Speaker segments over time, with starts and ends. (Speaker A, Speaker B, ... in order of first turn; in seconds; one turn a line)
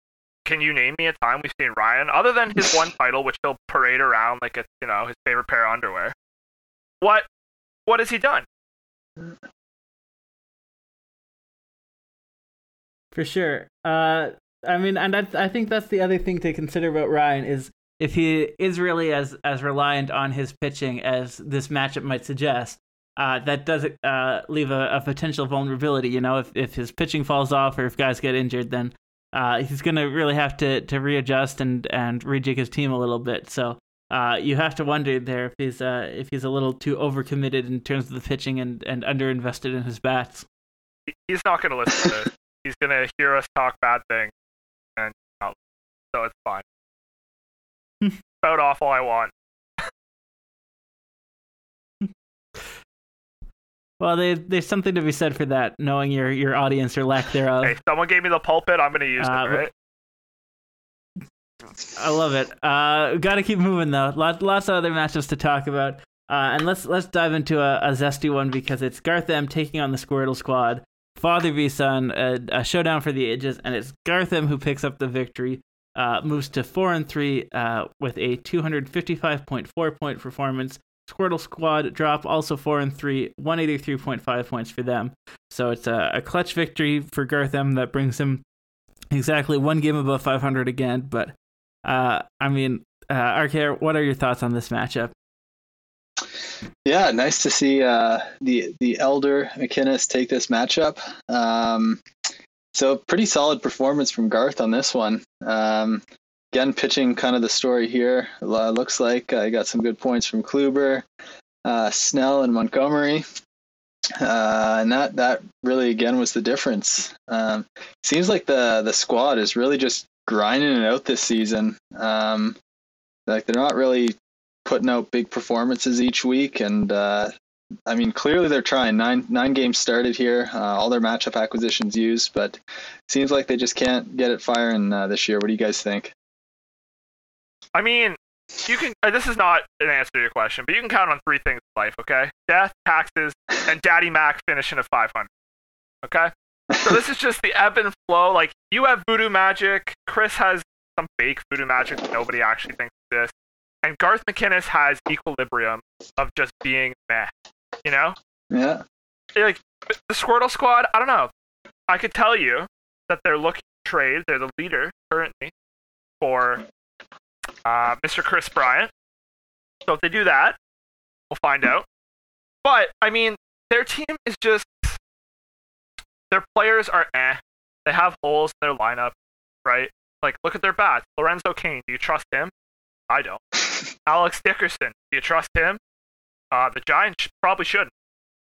Speaker A: 0.5-6.2
Speaker A: 7.0-7.3
Speaker A: 7.9-8.5
Speaker B: 13.1-40.5
Speaker A: 41.1-44.3
Speaker A: 45.0-45.6
Speaker A: 46.1-46.6
Speaker A: 48.4-49.9
Speaker B: 54.0-57.7
Speaker A: 57.6-59.7
Speaker B: 59.2-59.6
Speaker B: 62.0-88.4
Speaker B: 89.1-91.3
Speaker B: 91.8-95.1
Speaker C: 96.8-102.0
Speaker C: 102.7-111.0
Speaker C: 111.7-113.2
Speaker C: 114.2-122.6
Speaker C: 123.3-127.3
Speaker C: 127.9-136.1
Speaker A: 137.8-145.3
Speaker A: 146.0-153.3
Speaker A: 153.8-157.3
Speaker A: 157.8-158.2
Speaker C: 158.5-158.8
Speaker A: 159.3-161.3
Speaker A: 161.9-165.5
Speaker A: 166.2-166.7
Speaker A: 167.7-168.9
Speaker A: 169.8-170.6
Speaker A: 171.3-171.9
Speaker A: 172.6-175.0
Speaker A: 176.3-182.5
Speaker A: 183.1-183.5
Speaker A: 184.1-185.8
Speaker A: 186.5-187.9